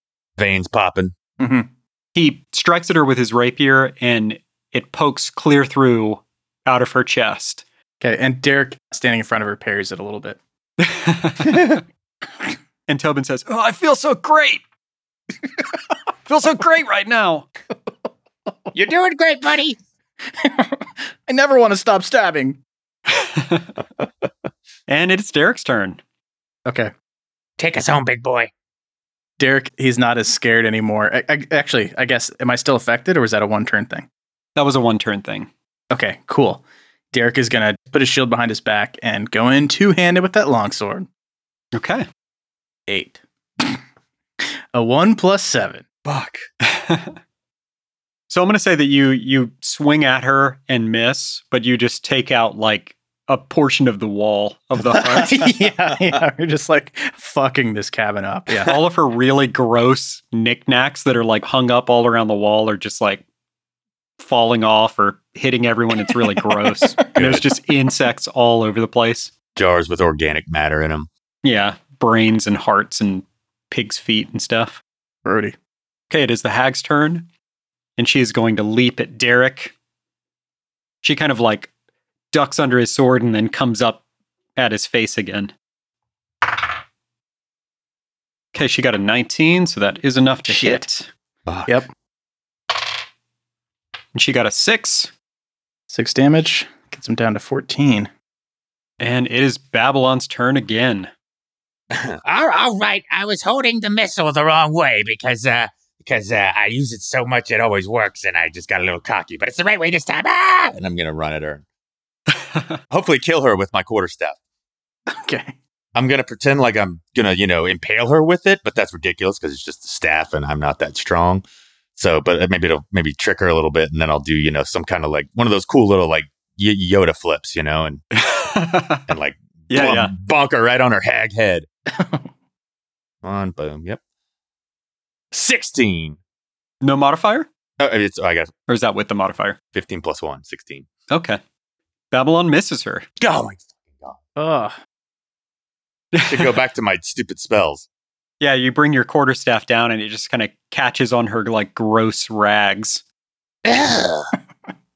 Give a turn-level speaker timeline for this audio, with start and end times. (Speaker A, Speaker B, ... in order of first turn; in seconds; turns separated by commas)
Speaker A: 0.4-1.1, Speaker B: 1.4-1.7, Speaker C: 2.1-7.6, Speaker B: 8.0-10.4, Speaker C: 10.8-11.8, Speaker C: 12.9-14.6, Speaker C: 16.3-17.5, Speaker D: 18.7-19.8, Speaker B: 20.3-22.6, Speaker C: 23.1-23.7, Speaker C: 24.9-26.0, Speaker B: 26.7-26.9, Speaker D: 27.6-28.5, Speaker B: 29.4-34.1, Speaker C: 34.6-35.5, Speaker B: 35.9-41.1, Speaker C: 41.7-42.1, Speaker B: 42.9-43.8, Speaker B: 44.7-45.9, Speaker A: 46.1-46.4, Speaker C: 46.6-47.2, Speaker C: 48.3-55.4, Speaker B: 54.8-58.8, Speaker C: 58.6-63.2, Speaker C: 64.2-69.3, Speaker B: 66.6-67.1, Speaker A: 67.2-67.5, Speaker A: 69.6-71.1, Speaker C: 71.4-74.8, Speaker B: 75.2-75.6, Speaker C: 76.1-77.3, Speaker C: 78.0-79.7, Speaker C: 81.0-81.7, Speaker C: 82.3-84.0, Speaker C: 84.6-85.5, Speaker C: 88.5-91.1, Speaker B: 90.5-90.8, Speaker A: 91.5-91.8, Speaker C: 94.2-95.1, Speaker B: 95.9-98.1, Speaker C: 99.0-101.1, Speaker A: 101.9-102.2, Speaker D: 102.2-110.8, Speaker A: 110.8-111.7, Speaker C: 112.3-112.8, Speaker A: 112.9-114.4, Speaker B: 115.1-115.5, Speaker A: 116.0-121.4, Speaker A: 122.0-128.0, Speaker C: 128.2-129.1, Speaker A: 129.1-131.7, Speaker C: 129.7-130.1, Speaker B: 131.9-132.3, Speaker A: 133.2-134.0, Speaker A: 135.3-136.2, Speaker C: 136.8-137.5, Speaker A: 137.8-138.5, Speaker C: 138.7-139.6, Speaker A: 139.7-140.9, Speaker C: 141.1-141.4, Speaker C: 142.1-143.1, Speaker A: 143.2-144.2, Speaker B: 144.4-144.8, Speaker C: 146.1-146.5, Speaker A: 146.2-147.9, Speaker C: 148.4-153.0, Speaker D: 153.7-154.3